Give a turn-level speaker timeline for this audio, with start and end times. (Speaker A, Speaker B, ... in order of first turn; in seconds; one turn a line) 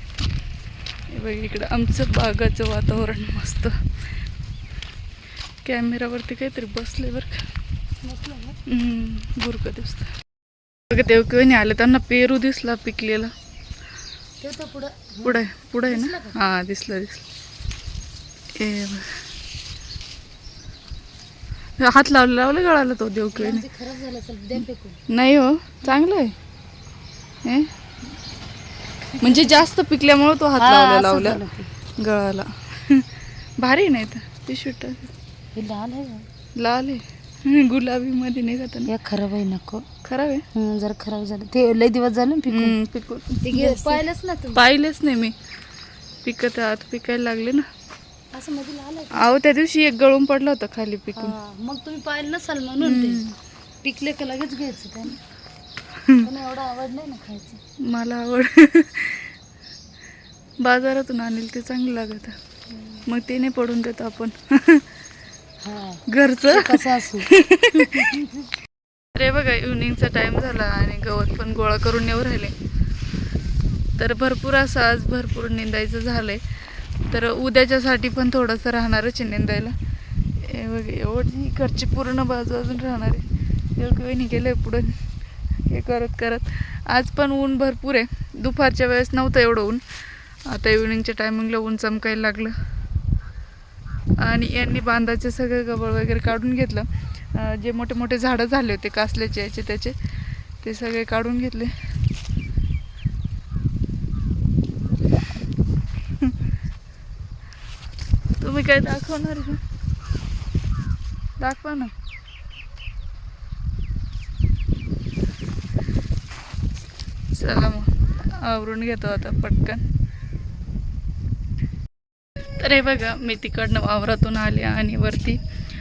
Speaker A: 1.1-3.8
Speaker A: 5.7-7.4
Speaker B: 8.0-8.6
Speaker A: 8.7-10.1
Speaker A: 10.9-13.3
Speaker B: 14.4-16.4
Speaker A: 15.2-17.2
Speaker A: 18.6-19.2
Speaker A: 21.8-23.6
Speaker B: 23.3-25.0
Speaker A: 25.1-26.3
Speaker B: 29.2-29.6
Speaker A: 29.2-31.4
Speaker B: 30.6-31.7
Speaker A: 32.0-33.1
Speaker A: 33.6-35.1
Speaker B: 35.5-36.3
Speaker A: 36.6-38.9
Speaker B: 38.9-39.9
Speaker A: 40.0-40.5
Speaker B: 40.5-42.8
Speaker A: 42.5-44.0
Speaker B: 43.4-44.6
Speaker A: 44.5-45.4
Speaker A: 46.2-47.7
Speaker B: 48.3-49.3
Speaker A: 49.1-51.4
Speaker B: 51.2-53.2
Speaker A: 52.8-53.4
Speaker B: 53.8-55.2
Speaker B: 56.2-57.6
Speaker A: 57.8-59.3
Speaker A: 60.6-62.4
Speaker B: 62.8-63.0
Speaker A: 63.1-64.8
Speaker B: 65.6-68.5
Speaker A: 66.1-68.2
Speaker A: 69.2-72.5
Speaker A: 74.0-76.4
Speaker A: 77.0-79.8
Speaker A: 80.4-83.2
Speaker A: 83.8-85.0
Speaker A: 85.7-89.8
Speaker A: 90.5-92.5
Speaker A: 94.2-100.0
Speaker A: 100.6-101.8
Speaker A: 108.4-109.6
Speaker A: 111.4-111.9
Speaker A: 117.3-119.8
Speaker A: 122.6-125.4